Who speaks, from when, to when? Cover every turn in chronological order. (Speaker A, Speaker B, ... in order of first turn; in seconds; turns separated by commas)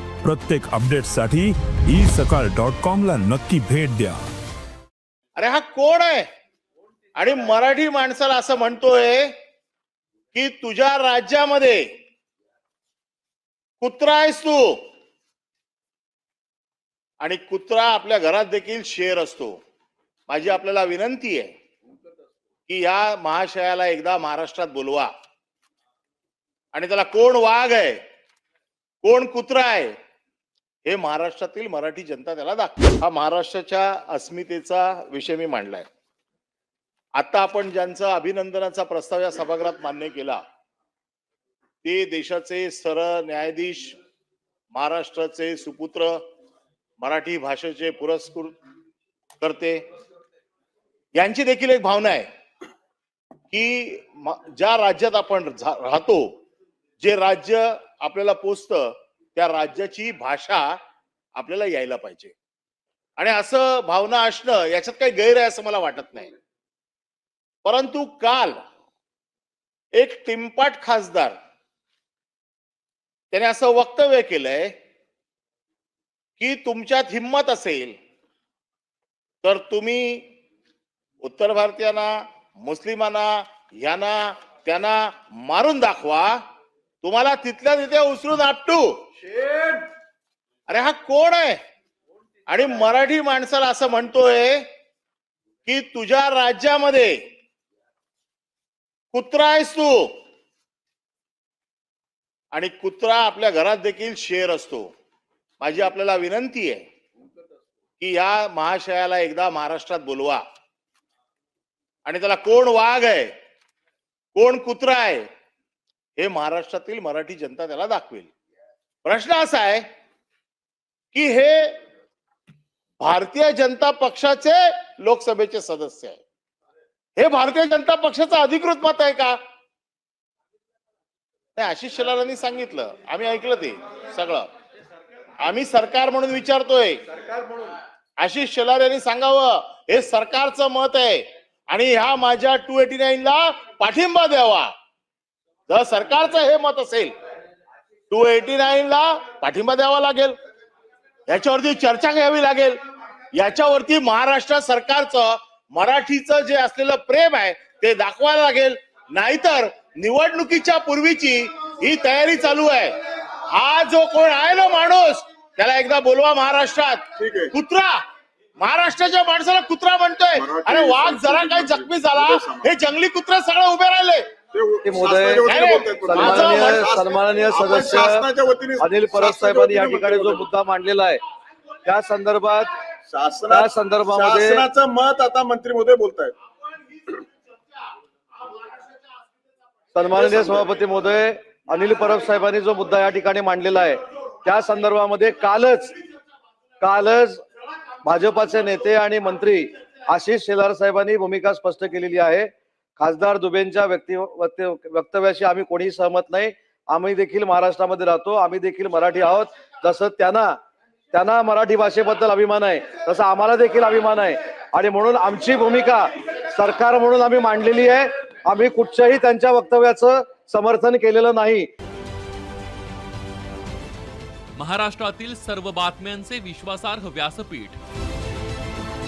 Speaker A: 0.2-4.2, Speaker B: 5.3-6.3, Speaker B: 7.1-9.3, Speaker B: 10.3-11.8, Speaker B: 13.8-14.8, Speaker B: 17.2-19.5, Speaker B: 20.3-21.5, Speaker B: 22.7-25.1, Speaker B: 26.7-28.0, Speaker B: 29.0-29.9, Speaker B: 30.9-35.9, Speaker B: 37.1-40.4, Speaker B: 41.8-44.0, Speaker B: 44.7-46.2, Speaker B: 47.0-48.5, Speaker B: 49.4-49.8, Speaker B: 51.1-52.3, Speaker B: 53.5-56.3, Speaker B: 57.0-60.8, Speaker B: 61.4-62.3, Speaker B: 63.2-66.3, Speaker B: 67.6-68.6, Speaker B: 70.0-71.4, Speaker B: 73.3-74.7, Speaker B: 76.4-78.0, Speaker B: 79.4-80.3, Speaker B: 81.2-86.4, Speaker B: 87.0-89.0, Speaker C: 89.2-89.9, Speaker B: 90.7-91.6, Speaker B: 92.5-94.7, Speaker B: 95.7-97.2, Speaker B: 99.1-100.1, Speaker B: 102.5-104.9, Speaker B: 105.6-106.8, Speaker B: 108.0-110.4, Speaker B: 112.0-113.3, Speaker B: 114.3-115.2, Speaker B: 116.2-118.3, Speaker B: 119.0-119.8, Speaker B: 121.1-121.8, Speaker B: 123.0-126.2, Speaker B: 127.2-129.4, Speaker B: 131.6-134.5, Speaker B: 135.4-137.0, Speaker B: 138.2-144.7, Speaker B: 145.7-147.1, Speaker B: 148.1-150.3, Speaker B: 151.3-152.8, Speaker B: 153.3-162.9, Speaker B: 163.5-168.0, Speaker C: 167.2-167.5, Speaker B: 168.6-174.3, Speaker C: 170.3-172.7, Speaker C: 174.5-180.5, Speaker D: 174.8-175.5, Speaker B: 175.4-176.9, Speaker D: 176.0-178.3, Speaker D: 178.8-181.2, Speaker D: 181.8-182.7, Speaker C: 183.1-186.3, Speaker D: 183.5-184.7, Speaker D: 189.9-195.9, Speaker C: 190.1-190.7, Speaker D: 196.8-197.4, Speaker D: 198.0-210.5, Speaker D: 211.1-221.7, Speaker E: 224.6-227.8